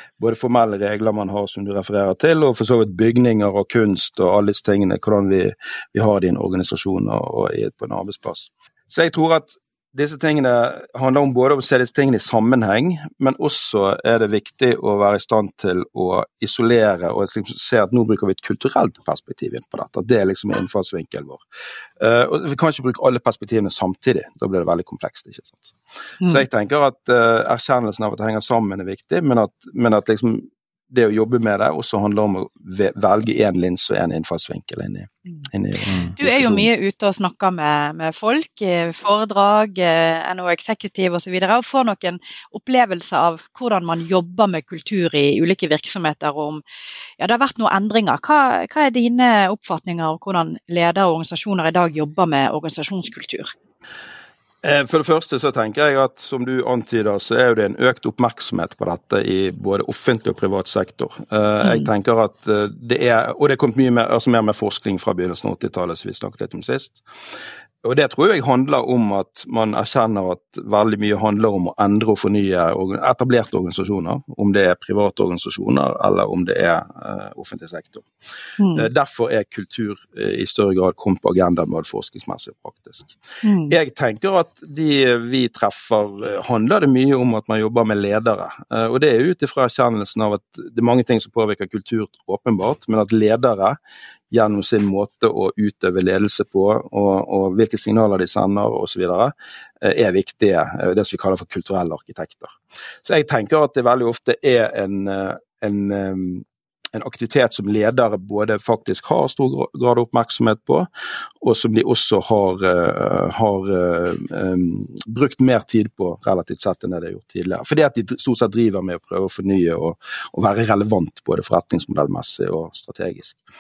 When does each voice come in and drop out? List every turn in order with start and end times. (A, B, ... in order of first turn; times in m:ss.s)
0:00.2-0:21.4 A
0:22.0-0:25.7 A
0:26.2-0:36.7 A
0:36.2-0:46.6 B
0:47.2-0:53.5 B
0:54.6-1:07.0 A
1:07.8-1:18.1 A
1:18.6-1:18.9 B
1:18.7-1:23.1 A
1:23.4-1:23.7 B
1:23.7-1:33.8 A
1:34.3-1:50.9 A
1:51.4-2:03.4 A